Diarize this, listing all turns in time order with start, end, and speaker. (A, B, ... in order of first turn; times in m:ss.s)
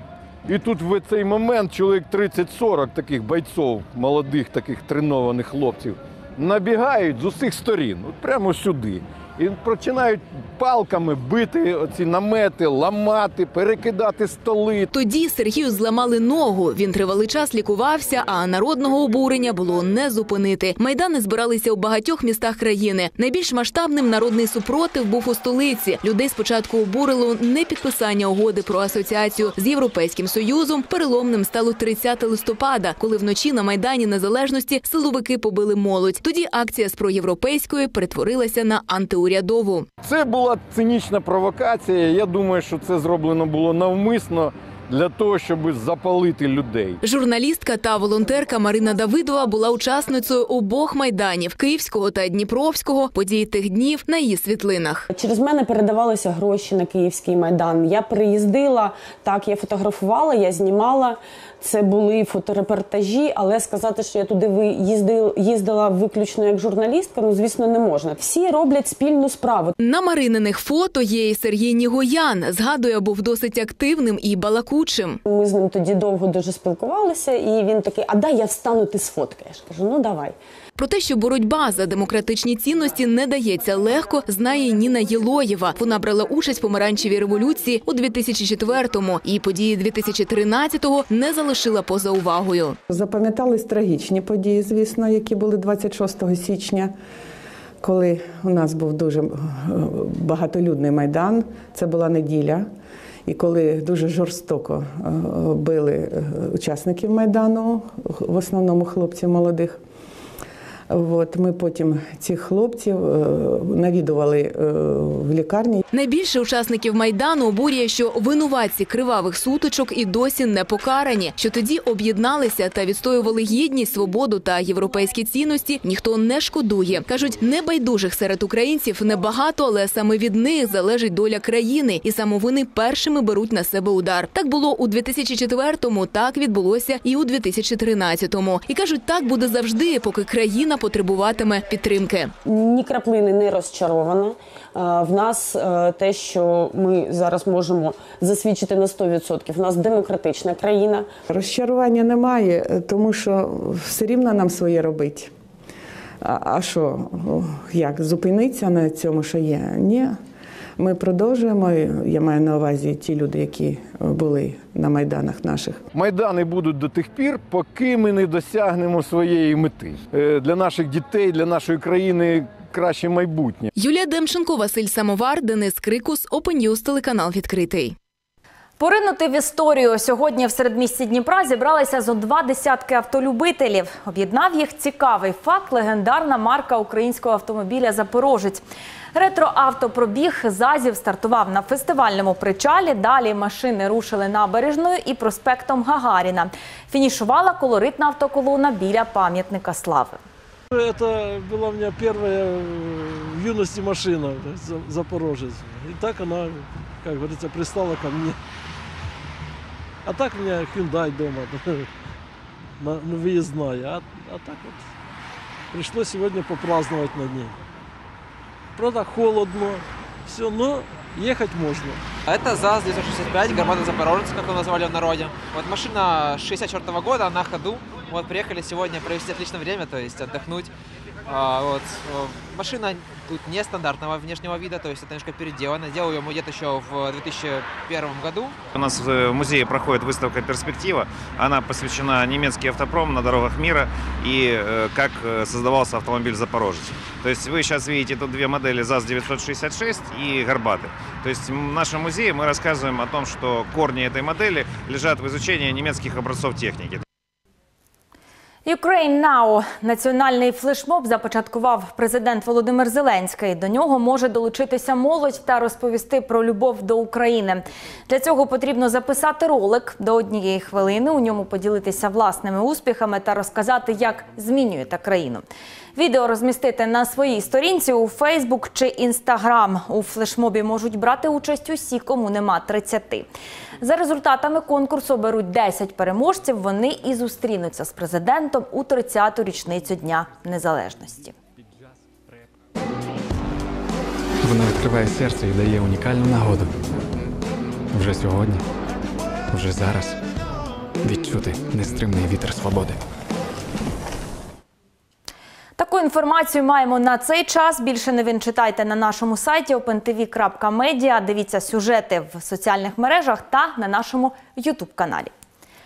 0:00.5-0:14.9 A
0:14.9-0:39.9 B
0:40.0-0:47.0 A
0:47.0-0:55.1 B
0:55.1-1:09.7 C
1:09.8-1:15.2 B
1:15.3-1:20.4 C
1:20.8-1:32.8 B
1:32.9-1:36.9 D
1:37.8-1:42.7 D
1:43.3-1:49.8 D
1:50.9-1:55.8 D
1:55.9-2:22.3 B
2:22.5-2:31.1 C
2:31.3-2:35.3 D
2:36.2-2:40.2 D
2:40.8-2:45.8 D
2:45.9-2:53.7 A
2:53.8-2:58.0 B
2:58.8-3:08.6 E
3:09.1-3:20.2 E
3:20.8-3:28.4 F
3:30.1-3:31.8 F
3:32.8-3:34.8 F
3:35.7-3:37.5 F
3:38.8-3:42.0 F
3:42.2-3:50.7 G
3:51.3-3:58.6 G
3:58.7-4:17.0 H
4:18.7-4:35.4 E
4:36.0-4:43.3 E
4:43.8-4:51.4 E
4:54.4-4:56.8 I
4:57.9-4:58.6 I
4:59.5-5:00.2 I
5:01.0-5:03.0 I
5:05.8-5:15.3 E